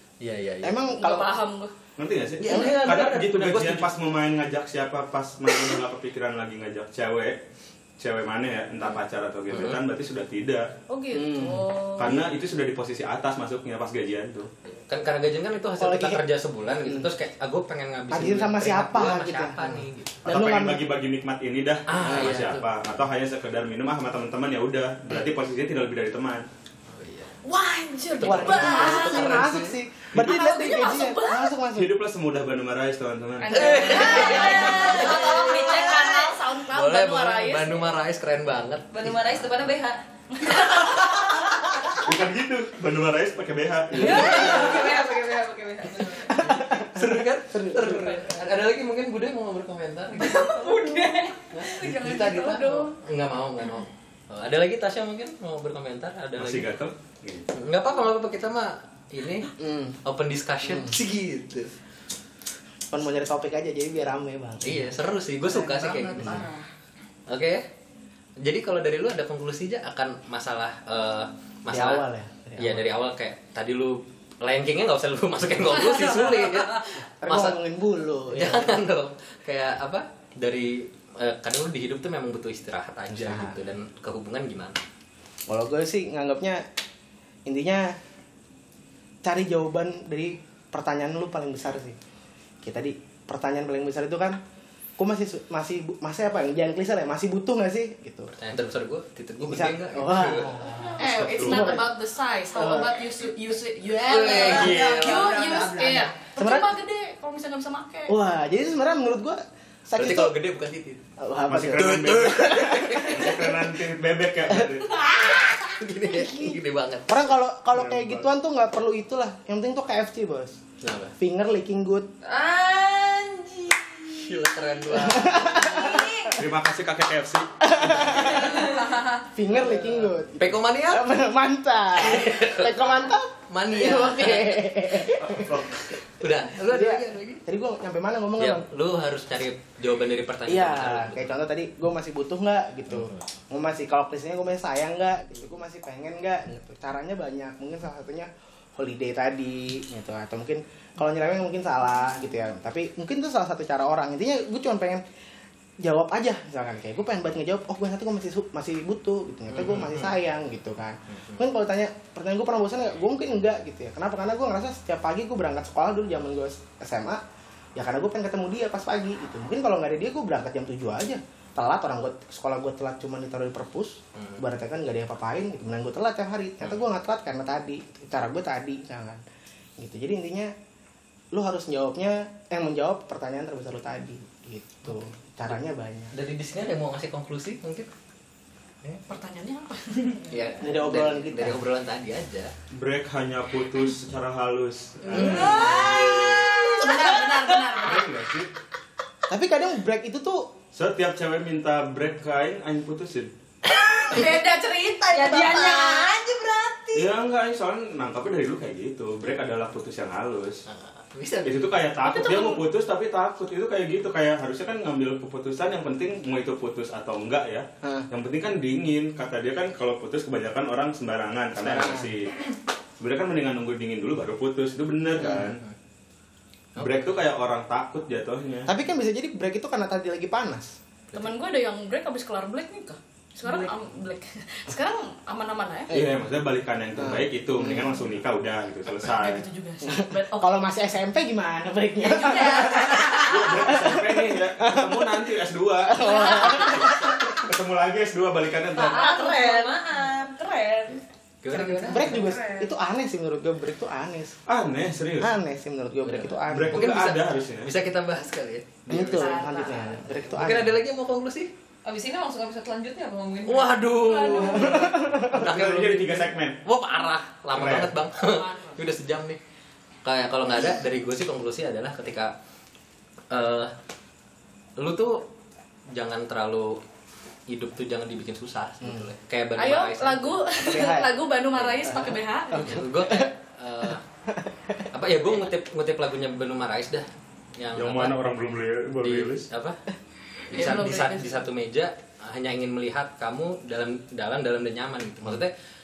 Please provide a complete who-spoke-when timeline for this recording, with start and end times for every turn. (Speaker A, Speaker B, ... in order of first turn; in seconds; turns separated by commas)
Speaker A: 0.2-0.8, Speaker B: 0.6-1.3, Speaker C: 0.9-1.7, Speaker D: 2.0-7.4, Speaker A: 2.4-3.9, Speaker D: 8.0-10.7, Speaker A: 9.5-9.8, Speaker C: 10.9-12.2, Speaker B: 11.1-11.6, Speaker D: 12.0-14.5, Speaker A: 14.7-20.2, Speaker B: 15.8-17.1, Speaker B: 18.1-20.9, Speaker D: 20.2-26.5, Speaker A: 21.9-22.6, Speaker B: 22.0-22.4, Speaker A: 26.9-27.3, Speaker C: 27.4-29.6, Speaker A: 28.2-29.8, Speaker B: 28.2-31.9, Speaker D: 30.1-30.4, Speaker C: 30.1-31.5, Speaker D: 31.7-34.0, Speaker C: 33.4-37.9, Speaker A: 33.5-35.9, Speaker E: 33.6-36.4, Speaker A: 36.7-39.4, Speaker E: 38.9-41.6, Speaker C: 40.6-41.1, Speaker D: 42.0-44.7, Speaker A: 43.9-44.9, Speaker E: 44.0-46.5, Speaker A: 46.4-50.5, Speaker B: 46.4-48.2, Speaker C: 50.2-52.9, Speaker E: 50.5-51.3, Speaker A: 51.5-56.7, Speaker D: 56.4-57.5, Speaker A: 57.5-59.5, Speaker B: 59.6-60.0, Speaker A: 60.0-61.7, Speaker B: 60.6-60.9, Speaker B: 62.9-64.9, Speaker A: 64.6-66.5, Speaker E: 65.5-66.6, Speaker B: 66.2-66.5, Speaker A: 67.3-67.7, Speaker A: 68.4-72.0, Speaker B: 71.7-72.9, Speaker A: 72.6-77.6, Speaker B: 77.2-78.8, Speaker A: 78.3-84.8, Speaker B: 83.1-83.6, Speaker B: 85.5-86.6, Speaker B: 87.5-88.0, Speaker B: 89.2-92.0, Speaker B: 92.6-94.4, Speaker B: 95.0-98.3, Speaker A: 98.3-100.7, Speaker B: 99.4-101.9, Speaker C: 101.0-108.1, Speaker D: 101.1-101.7, Speaker B: 102.5-102.9, Speaker A: 104.0-106.1, Speaker B: 106.3-106.7, Speaker B: 108.1-110.3, Speaker A: 110.0-111.0, Speaker B: 111.2-113.5, Speaker D: 111.5-114.9, Speaker A: 111.7-113.5, Speaker A: 115.2-117.2, Speaker B: 116.1-116.6, Speaker B: 117.1-120.6, Speaker D: 117.7-118.2, Speaker A: 120.8-121.1, Speaker B: 121.2-122.1, Speaker E: 122.2-124.8, Speaker A: 124.1-126.0, Speaker B: 124.9-126.2, Speaker E: 125.4-126.4, Speaker D: 126.3-128.4, Speaker B: 127.6-128.7, Speaker A: 128.0-128.8, Speaker E: 128.4-129.0, Speaker B: 129.3-135.6, Speaker A: 129.5-131.1, Speaker A: 132.0-135.2, Speaker D: 135.2-135.8, Speaker A: 135.9-137.4, Speaker B: 136.6-138.7, Speaker A: 138.4-141.3, Speaker B: 140.5-155.0, Speaker A: 142.9-143.2, Speaker B: 155.8-167.2, Speaker A: 159.5-160.1, Speaker A: 161.1-161.4, Speaker B: 167.8-179.2, Speaker A: 174.2-174.4, Speaker B: 179.8-180.5, Speaker B: 181.3-186.1, Speaker A: 186.1-187.9, Speaker C: 189.1-190.3, Speaker A: 190.3-192.5, Speaker B: 190.6-191.6, Speaker D: 192.7-195.9, Speaker A: 195.1-196.4, Speaker C: 195.2-196.2, Speaker E: 195.4-197.1, Speaker C: 196.7-198.1, Speaker D: 197.7-198.5, Speaker B: 199.3-200.5, Speaker D: 200.7-203.3, Speaker E: 203.7-204.5, Speaker C: 204.1-206.0, Speaker E: 205.1-207.1, Speaker D: 206.9-210.6, Speaker A: 210.7-211.7, Speaker D: 211.4-222.4, Speaker C: 212.0-212.6, Speaker B: 217.8-218.1, Speaker B: 221.6-222.1, Speaker D: 223.0-225.6, Speaker B: 225.2-225.5, Speaker A: 225.2-225.7, Speaker A: 226.8-227.1, Speaker D: 226.8-228.7, Speaker B: 228.7-230.7, Speaker C: 231.1-235.9, Speaker D: 235.9-239.4, Speaker B: 237.0-237.9, Speaker C: 239.0-240.7, Speaker B: 239.8-245.3, Speaker C: 242.0-243.3, Speaker E: 242.2-243.2, Speaker D: 243.1-249.1, Speaker B: 245.8-247.4, Speaker E: 248.8-251.0, Speaker A: 248.8-249.7, Speaker C: 249.1-249.7, Speaker A: 250.9-252.3, Speaker C: 251.5-252.4, Speaker E: 251.6-252.7, Speaker B: 251.9-254.4, Speaker D: 254.5-255.3, Speaker B: 255.2-256.9, Speaker A: 256.0-259.4, Speaker D: 256.5-257.7, Speaker B: 258.9-260.8, Speaker E: 259.1-260.1, Speaker A: 260.1-261.5, Speaker E: 261.8-264.9, Speaker A: 263.4-269.4, Speaker B: 264.6-265.3, Speaker D: 264.8-266.6, Speaker D: 267.5-267.9, Speaker C: 268.2-268.8, Speaker A: 270.0-272.3, Speaker A: 273.3-273.7, Speaker A: 274.8-275.3, Speaker A: 275.9-276.8, Speaker A: 277.5-280.5, Speaker B: 278.8-279.1, Speaker C: 279.6-282.6, Speaker B: 280.6-281.1, Speaker A: 281.6-281.9, Speaker B: 281.8-283.3, Speaker A: 282.6-284.0, Speaker B: 284.3-284.8, Speaker A: 284.9-288.3, Speaker D: 287.8-289.5, Speaker A: 289.0-289.8, Speaker A: 290.5-295.5, Speaker C: 290.5-291.4